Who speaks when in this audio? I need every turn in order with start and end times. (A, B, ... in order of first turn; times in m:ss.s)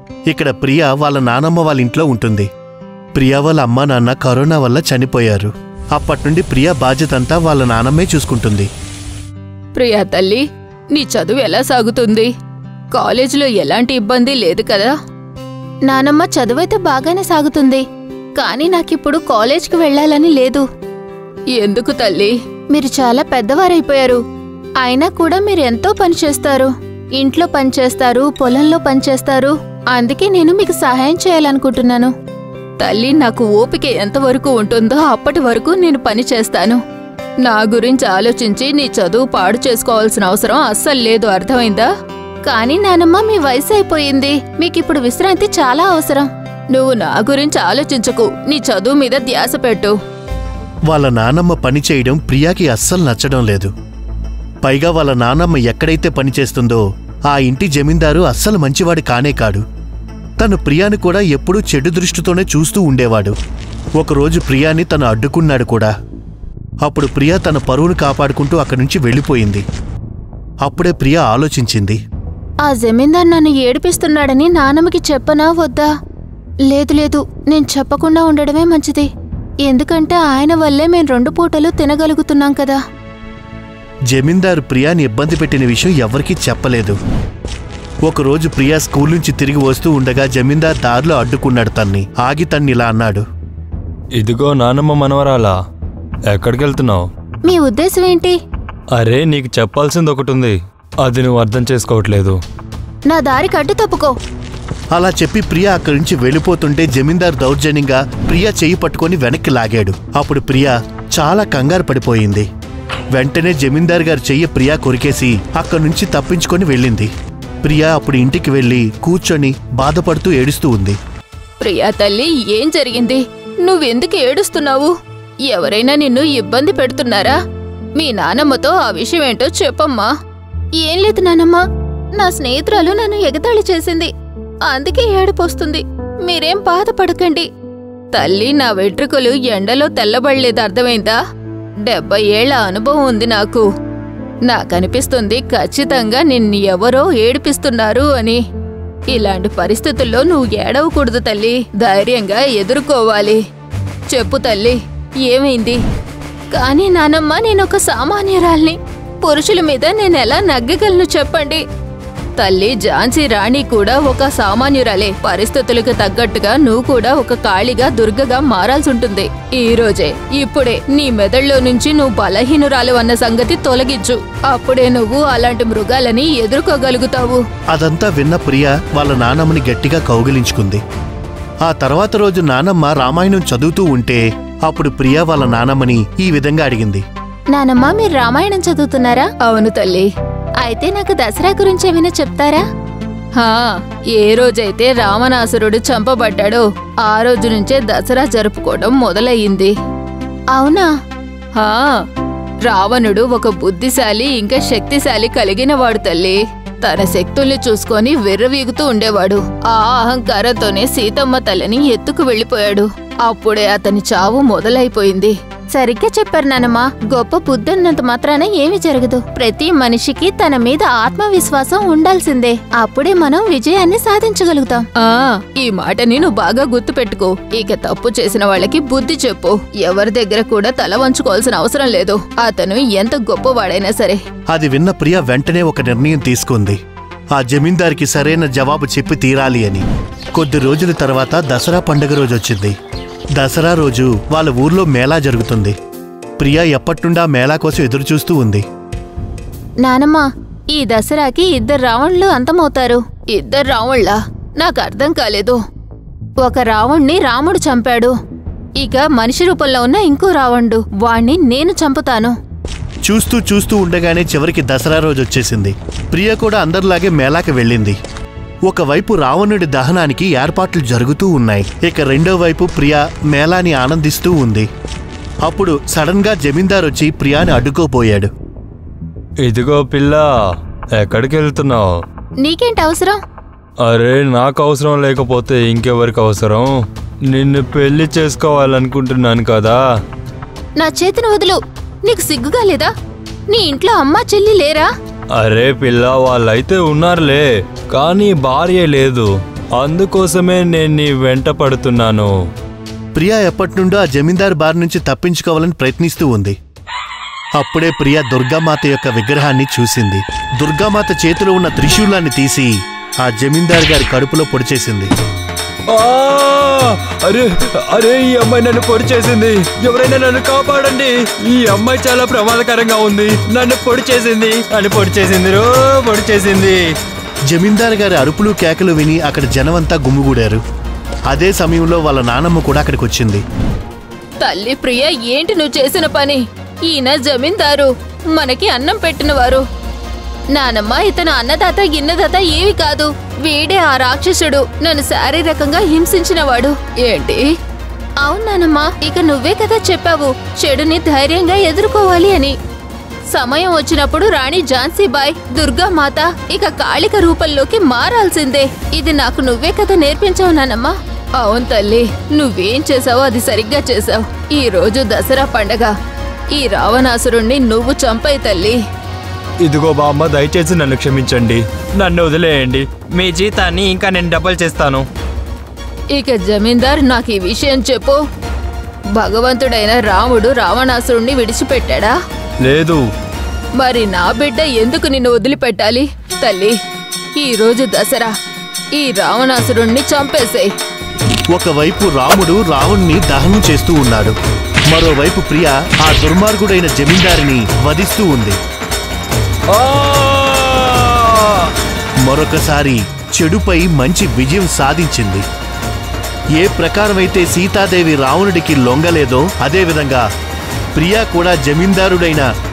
0:00.3-0:02.5 A
0:03.1-0:08.7 A
0:09.7-0:12.3 B
0:12.9-0:14.9 B
0:15.9-0:20.6 B
0:21.5-0:24.2 B
0:24.8-0:32.1 B
0:32.8-0:36.8 B
0:37.4-0:41.9 B
0:42.5-0:50.0 B
0:50.9-0:53.7 A
0:54.6-0:59.6 A
1:00.4-1:03.4 A
1:04.0-1:05.9 A
1:06.8-1:09.6 A
1:10.6-1:12.0 A
1:12.6-1:15.9 B
1:16.7-1:19.1 B
1:19.6-1:22.8 B
1:24.1-1:27.0 A
1:28.0-1:33.2 A
1:34.2-1:35.6 C
1:36.3-1:37.1 C
1:37.4-1:38.4 B
1:39.0-1:42.4 C
1:43.1-1:44.2 B
1:44.9-1:52.5 A
1:53.1-1:57.1 A
1:57.6-2:01.0 A
2:01.6-2:04.9 B
2:05.5-2:07.4 B
2:08.0-2:10.1 B
2:10.8-2:14.1 B
2:14.6-2:17.5 B
2:18.1-2:21.2 B
2:21.8-2:23.7 B
2:24.5-2:28.4 B
2:29.1-2:33.4 B
2:34.1-2:35.8 B
2:36.5-2:41.6 B
2:42.4-2:57.4 B
2:57.7-3:00.8 A
3:01.6-3:07.0 A
3:07.5-3:12.6 B
3:13.4-3:19.7 B
3:20.5-3:20.9 B
3:21.5-3:22.0 B
3:22.6-3:54.2 B
3:54.5-3:56.8 A
3:57.3-4:02.7 A
4:03.4-4:05.7 A
4:06.4-4:08.6 A
4:09.8-4:15.6 B
4:16.4-4:18.1 B
4:18.8-4:22.4 B
4:23.0-4:28.0 A
4:28.6-4:34.7 A
4:35.4-4:38.3 A
4:39.4-4:40.3 C
4:41.0-4:41.9 C
4:42.4-4:43.2 B
4:43.8-4:46.7 C
4:47.3-4:49.8 C
4:50.8-4:52.9 B
4:53.5-4:54.9 B
4:55.4-5:02.3 C
5:03.1-5:06.6 A
5:07.6-5:15.1 A
5:15.9-5:26.8 C
5:27.5-5:30.6 A
5:31.3-5:33.4 A
5:34.4-5:39.6 B
5:40.5-5:47.5 B
5:48.2-5:52.5 B
5:53.3-6:05.9 B
6:06.5-6:08.8 B
6:09.6-6:15.1 C
6:16.1-6:18.2 B
6:19.1-6:22.2 B
6:22.6-6:23.0 C
6:23.8-6:26.8 B
6:27.4-6:28.3 B
6:29.0-6:30.7 B
6:31.5-6:34.4 A
6:34.9-6:38.6 A
6:39.8-6:41.4 C
6:42.2-6:45.4 A
6:46.6-6:50.2 A
6:50.9-6:52.5 A